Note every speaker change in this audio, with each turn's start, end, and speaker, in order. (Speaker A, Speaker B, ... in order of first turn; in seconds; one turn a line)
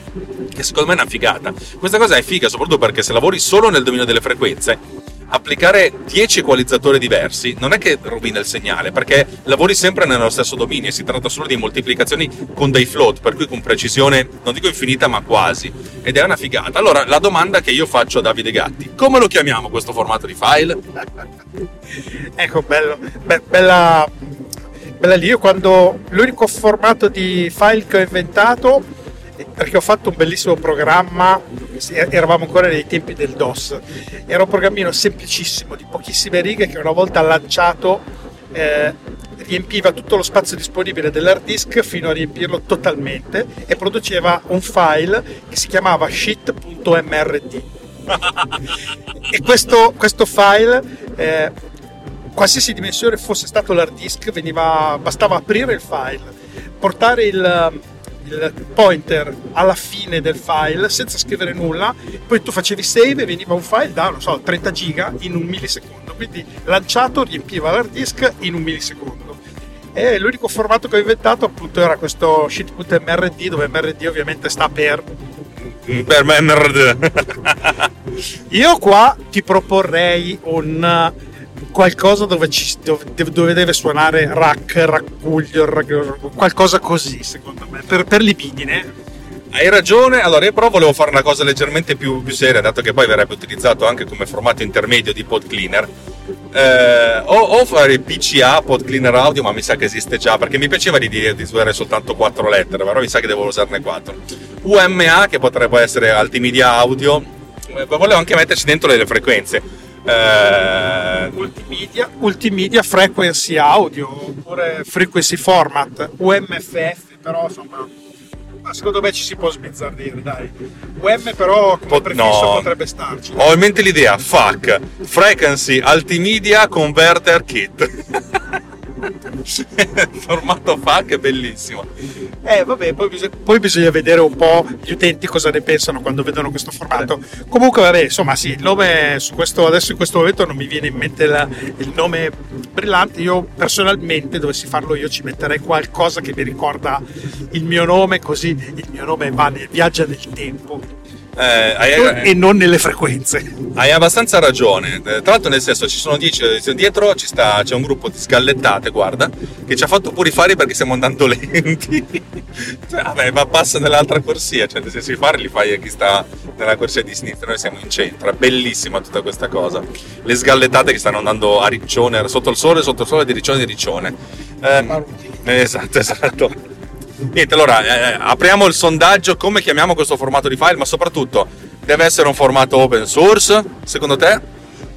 Speaker A: 0.5-4.8
Speaker A: 5.3-20.8
Speaker B: 22.4-24.1
Speaker B: 25.0-28.9
Speaker B: 29.4-47.7
Speaker B: 49.2-51.5
Speaker B: 52.3-69.4
Speaker B: 69.9-75.0
Speaker A: 75.8-77.9
Speaker B: 78.5-81.1
Speaker B: 81.7-88.9
Speaker A: 89.5-95.9
Speaker A: 96.5-111.3
Speaker B: 111.3-117.9
Speaker B: 118.6-123.5
Speaker A: 121.9-122.7
Speaker A: 123.3-128.4
Speaker A: 129.4-131.9
Speaker B: 132.4-150.9
Speaker A: 151.3-152.3
Speaker B: 151.9-153.5
Speaker A: 153.7-176.6
Speaker A: 177.3-184.4